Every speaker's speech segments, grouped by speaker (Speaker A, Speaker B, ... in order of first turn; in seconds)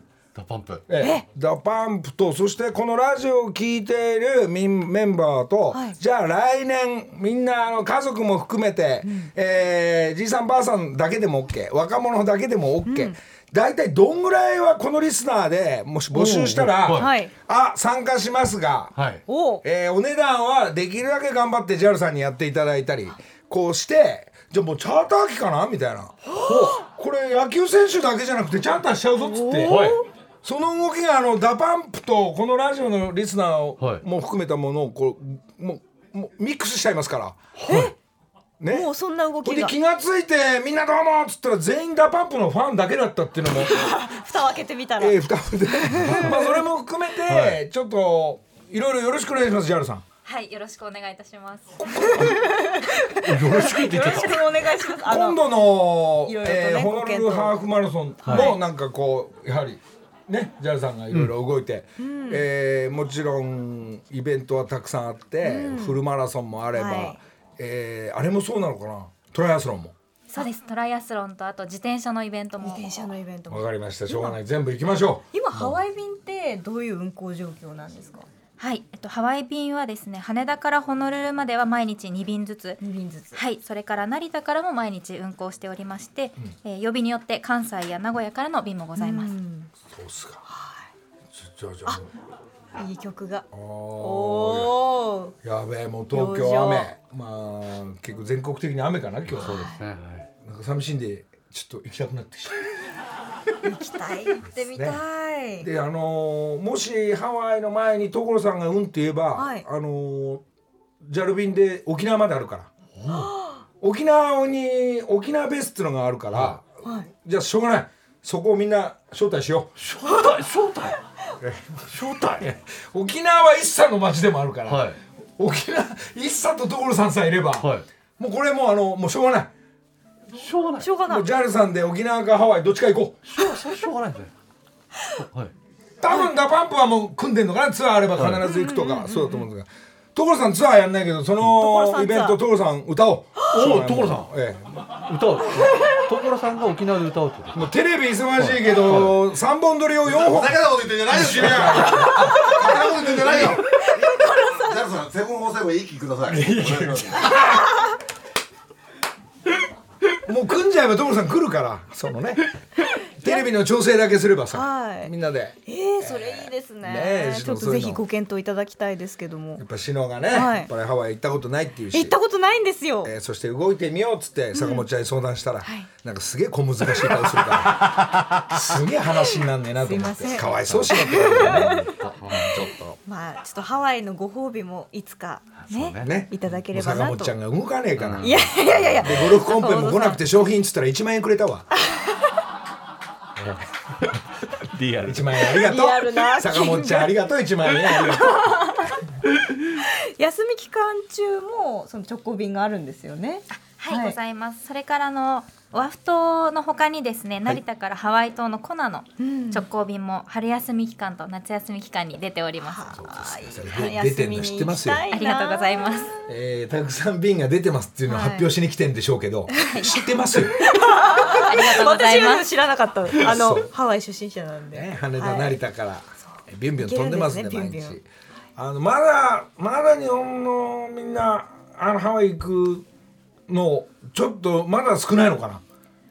Speaker A: 0.3-0.9, 16.1-17.2, 18.9-19.2, 26.3-26.8, 29.6-30.0, 33.8-34.0, 37.6-37.9, 47.3-47.6, 53.2-54.7, 58.2-58.5, 99.3-100.2, 113.0-113.3, 119.8-121.0, 121.9-122.5, 124.7-125.0, 127.6-127.8, 130.3-130.9, 133.3-134.3, 135.2-135.5, 138.2-138.4, 143.5-144.3, 145.0-147.7, 148.4-149.2, 180.4-182.6, 185.5-186.6, 187.9-189.4, 194.5-195.5
Speaker B: 0.9-18.9, 19.6-29.9, 30.4-37.8, 38.6-38.9, 39.4-43.8, 45.0-50.0, 51.8-52.4, 55.1-69.9, 73.5-75.2, 89.9-90.4, 91.3-92.1, 93.5-94.9, 95.4-99.6, 100.4-102.6, 104.6-105.0, 105.6-110.4, 111.0-112.7, 113.8-119.7, 121.4-129.5, 131.1-133.2, 136.0-144.7, 147.5-153.6, 156.3-157.6, 160.2-162.5, 163.2-168.0, 169.6-172.1, 173.0-183.0, 186.0-191.7, 195.1-198.9, 212.9-215.0, 216.2-220.6, 223.2-223.7, 224.7-228.1, 228.6-232.9, 233.5-235.6
Speaker C: 1.0-1.2, 5.7-6.0, 9.0-9.3, 12.8-13.2, 16.9-17.3, 19.3-19.6, 26.4-26.6, 29.2-30.0, 37.6-37.9, 38.7-39.7, 43.6-46.6, 52.2-55.6, 56.2-57.6, 58.3-58.6, 62.0-62.4, 65.4-66.0, 66.7-67.2, 72.6-74.4, 75.3-78.3, 82.8-83.4, 89.0-89.7, 90.5-90.8, 92.8-93.5, 94.0-95.3, 96.1-96.9, 99.4-99.8, 103.6-105.7, 109.3-109.6, 116.8-117.1, 130.8-131.3, 138.4-139.5, 141.4-142.4, 153.9-154.8, 163.2-163.5, 164.5-165.1, 165.7-169.6, 170.3-170.7, 171.9-173.1, 174.5-174.9, 179.7-187.4, 188.2-190.2, 195.4-199.0, 199.8-204.2, 209.2-209.7, 212.6-216.2, 218.1-218.5, 219.5-225.6, 226.2-228.0
Speaker D: 50.2-51.8, 70.3-73.1, 78.6-82.8, 83.3-89.3, 203.5-212.9, 215.1-216.1, 219.7-220.1, 221.3-222.5
Speaker E: 150.1-153.9, 154.5-157.4